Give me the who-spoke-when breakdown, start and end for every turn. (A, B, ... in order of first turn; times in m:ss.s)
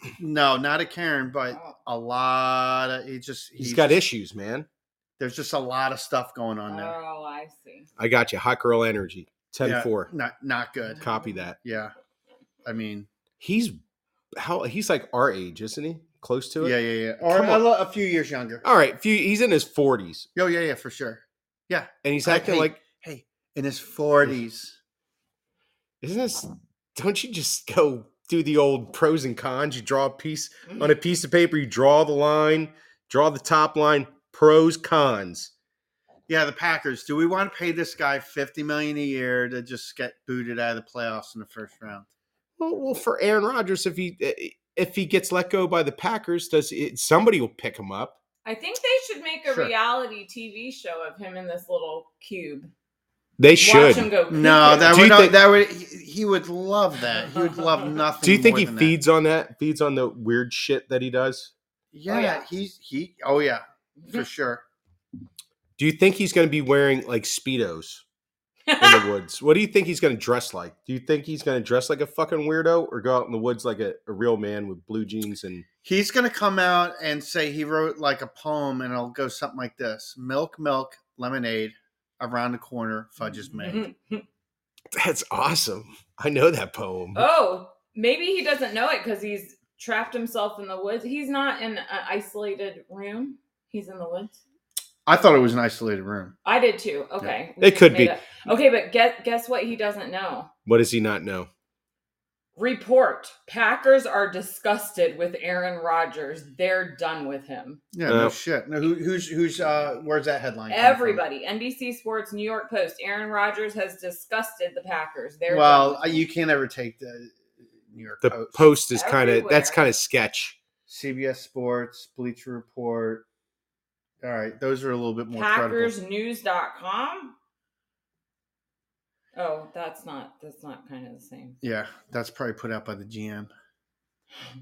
0:00.2-0:04.0 A
0:01.5-0:01.8 B
0:03.6-0:04.7 C
0:05.2-0:07.0 A
0:06.7-0:07.9 B
0:08.0-0:10.1 C
0:09.6-0:11.1 A
0:10.9-0:11.5 B
0:11.0-0:11.6 C
0:11.6-0:11.9 A
0:12.6-0:13.1 A
0:13.4-0:13.8 C
0:14.4-0:16.8 C
0:16.6-0:18.6 A
0:17.3-0:17.6 C
0:18.6-0:20.3 C
0:20.4-0:24.8 A
0:22.0-0:22.8 C
0:26.0-0:35.5 C
0:36.3-0:42.1 A
0:42.6-0:48.2 C
0:48.4-0:52.7 B
0:49.5-0:49.7 A
0:53.4-0:54.1 C
0:53.6-0:55.0 B
0:54.3-0:59.0 A
0:54.9-0:55.4 C
0:57.3-0:58.0 B
0:58.2-1:01.5 C
1:01.9-1:04.6 A
1:02.1-1:02.4 B
1:05.8-1:08.0 C
1:08.7-1:09.1 B
1:08.8-1:15.7 C
1:15.8-1:23.9 A
1:23.3-1:24.2 B
1:24.9-1:27.3 C
1:27.2-1:34.4 B
1:35.1-1:36.3 A
1:36.4-1:40.5 B
1:37.2-1:38.1 C
1:40.7-1:41.5 C
1:42.6-1:47.8 B
1:47.9-1:51.2 A
1:48.1-1:48.4 C
1:50.7-1:56.3 B
1:55.5-1:58.7 A
1:58.2-2:00.6 C
1:58.9-1:59.8 B
2:00.9-2:03.3 A
2:04.2-2:05.9 A
2:05.3-2:07.3 B
2:09.4-2:11.6 B
2:11.6-2:13.5 A